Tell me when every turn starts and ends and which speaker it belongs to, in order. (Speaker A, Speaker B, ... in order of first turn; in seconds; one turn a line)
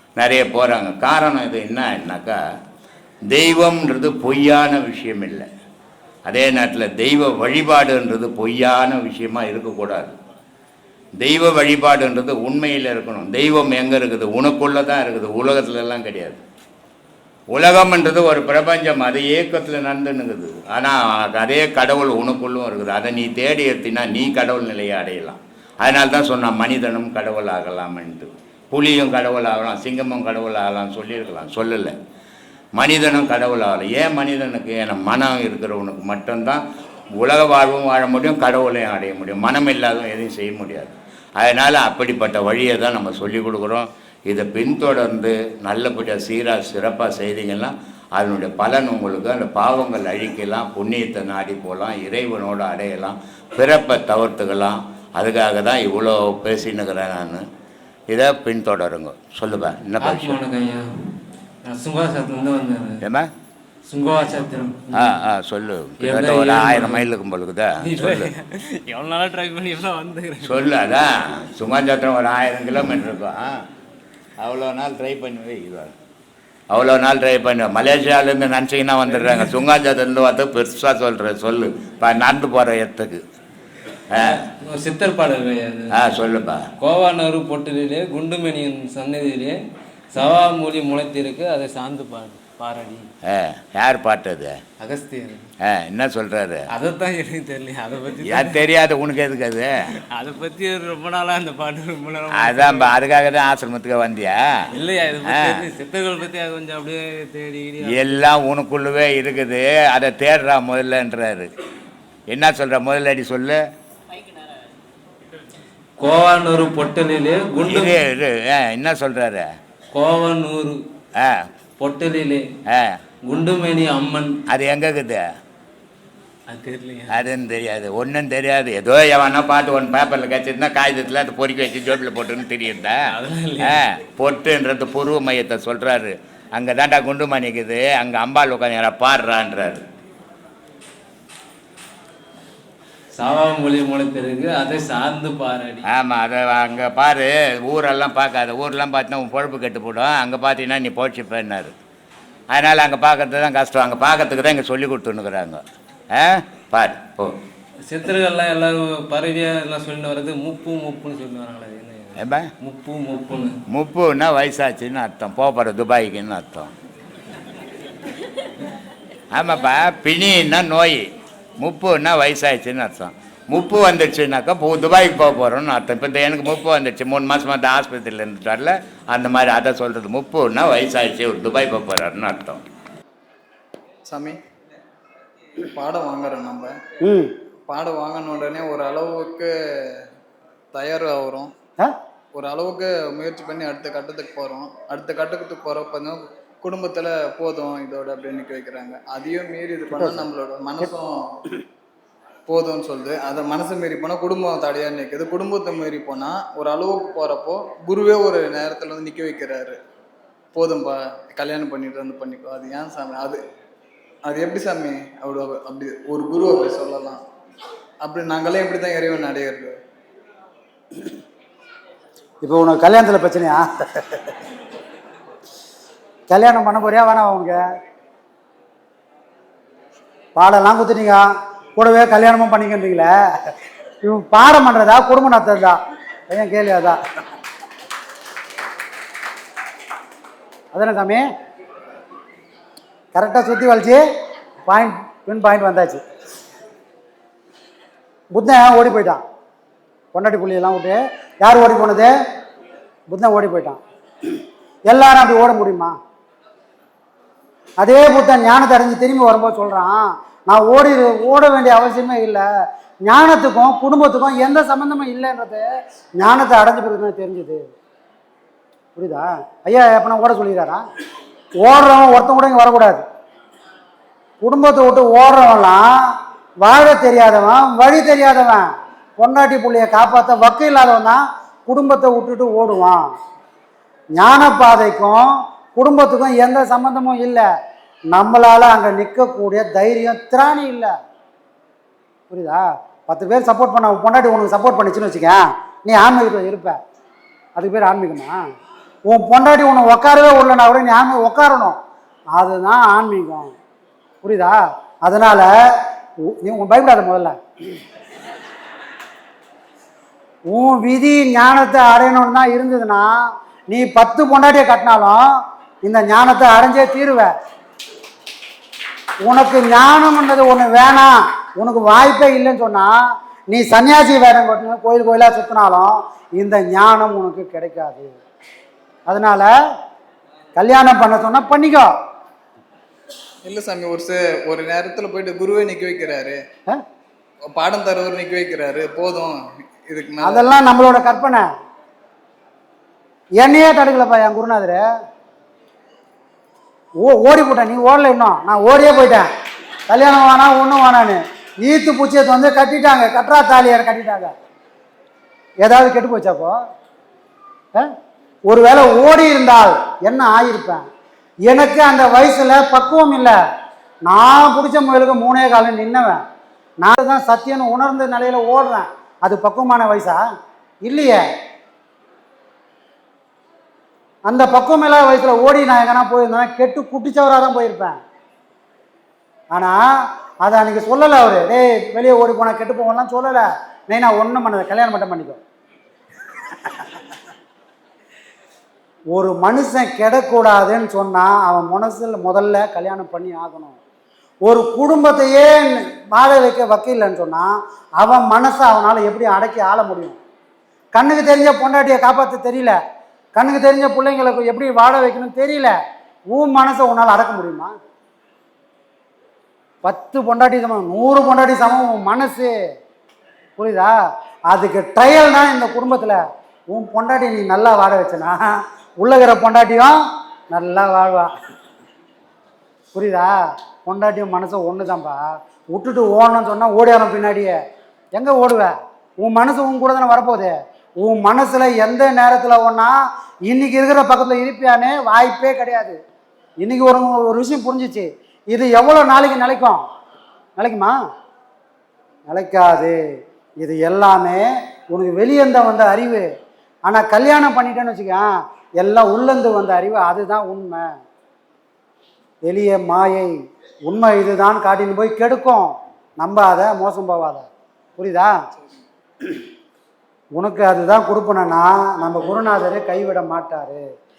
Speaker A: 0.2-2.4
Speaker A: 3.3-5.5
Speaker A: 6.3-10.1
Speaker A: 11.2-16.4
Speaker A: 17.5-31.9
Speaker A: 32.8-36.6
Speaker A: 37.2-57.4
Speaker A: 58.1-60.4
Speaker B: 60.0-60.9
Speaker B: 61.6-63.0
Speaker A: 63.0-63.3
Speaker B: 63.9-65.2
Speaker A: 64.9-68.3
Speaker B: 66.0-67.1
Speaker B: 67.8-70.7
Speaker A: 70.4-73.6
Speaker A: 74.4-75.9
Speaker A: 76.7-83.2
Speaker A: 84.1-84.4
Speaker B: 84.1-86.3
Speaker A: 86.0-86.7
Speaker B: 86.8-89.6
Speaker B: 90.1-93.1
Speaker A: 93.3-94.6
Speaker B: 94.8-95.4
Speaker A: 95.6-96.7
Speaker B: 96.7-98.7
Speaker A: 98.2-99.7
Speaker B: 100.1-103.0
Speaker A: 102.3-104.4
Speaker B: 104.7-108.3
Speaker A: 105.2-105.7
Speaker A: 107.9-111.5
Speaker A: 112.3-113.6
Speaker B: 116.0-118.0
Speaker A: 117.6-119.5
Speaker B: 119.9-120.8
Speaker A: 121.2-121.5
Speaker B: 121.8-122.4
Speaker A: 122.7-123.0
Speaker B: 123.3-124.4
Speaker A: 124.5-125.2
Speaker B: 126.5-127.2
Speaker A: 127.1-133.0
Speaker B: 133.1-133.8
Speaker A: 133.6-139.8
Speaker B: 143.1-145.9
Speaker A: 145.9-151.7
Speaker A: 152.5-157.3
Speaker B: 157.9-163.6
Speaker A: 162.2-162.5
Speaker A: 163.7-166.7
Speaker A: 169.3-171.1
Speaker A: 171.6-182.6
Speaker C: 184.1-184.4
Speaker C: 185.7-186.7
Speaker D: 187.0-187.3
Speaker C: 187.7-190.1
Speaker C: 190.7-191.5
Speaker C: 192.3-201.2
Speaker D: 200.0-200.2
Speaker C: 202.5-209.8
Speaker C: 210.5-213.4
Speaker C: 214.3-217.2
Speaker C: 218.0-219.8
Speaker D: 222.4-224.3
Speaker D: 226.3-227.6
Speaker D: 230.4-231.2
Speaker D: 231.8-233.1
Speaker D: 234.0-235.8
Speaker D: 236.3-237.0
Speaker D: 240.7-241.2
Speaker D: 243.1-244.0
Speaker D: 244.7-246.0
Speaker D: 248.3-249.2
Speaker D: 250.1-252.1
Speaker D: 253.1-253.8
Speaker D: 254.9-255.9
Speaker D: 257.8-262.5
Speaker D: 263.0-265.7
Speaker D: 266.2-267.6
Speaker D: 269.0-270.8
Speaker D: 271.6-273.0
Speaker D: 274.4-275.9
Speaker D: 276.6-283.1
Speaker D: 284.2-287.5
Speaker D: 288.1-290.9
Speaker D: 292.3-296.8
Speaker D: 297.6-298.4
Speaker D: 299.1-301.8
Speaker D: 302.3-303.5
Speaker D: 304.2-305.5
Speaker D: 306.3-307.4
Speaker D: 310.5-313.2
Speaker D: 313.7-317.3
Speaker D: 319.2-323.0
Speaker D: 323.5-328.1
Speaker D: 329.1-329.5
Speaker D: 330.6-331.9
Speaker C: 333.4-336.4
Speaker C: 337.5-339.4
Speaker C: 339.9-340.6
Speaker D: 340.3-341.5
Speaker D: 343.4-344.8
Speaker D: 347.0-349.3
Speaker D: 349.9-354.3
Speaker D: 355.6-356.6
Speaker D: 358.5-360.9
Speaker D: 361.5-363.4
Speaker D: 364.1-366.2
Speaker D: 366.8-370.2
Speaker D: 370.8-371.2
Speaker D: 374.3-378.0
Speaker D: 379.5-379.8
Speaker D: 380.4-385.4
Speaker D: 389.1-393.8
Speaker D: 394.4-400.2
Speaker D: 400.9-402.8
Speaker D: 403.4-405.8
Speaker D: 406.3-407.7
Speaker D: 409.8-412.5
Speaker D: 413.6-413.9
Speaker D: 414.5-418.4
Speaker D: 419.0-420.0
Speaker D: 420.5-421.3
Speaker D: 422.9-423.3
Speaker D: 423.8-427.6
Speaker D: 428.1-432.9
Speaker D: 433.5-436.0
Speaker D: 436.6-439.8
Speaker D: 440.6-440.9
Speaker D: 442.3-443.0
Speaker D: 443.6-446.3
Speaker D: 446.9-448.2
Speaker D: 448.8-450.9
Speaker D: 452.4-453.3
Speaker D: 453.9-457.5
Speaker D: 458.0-458.3
Speaker C: 458.6-458.8
Speaker D: 460.4-463.8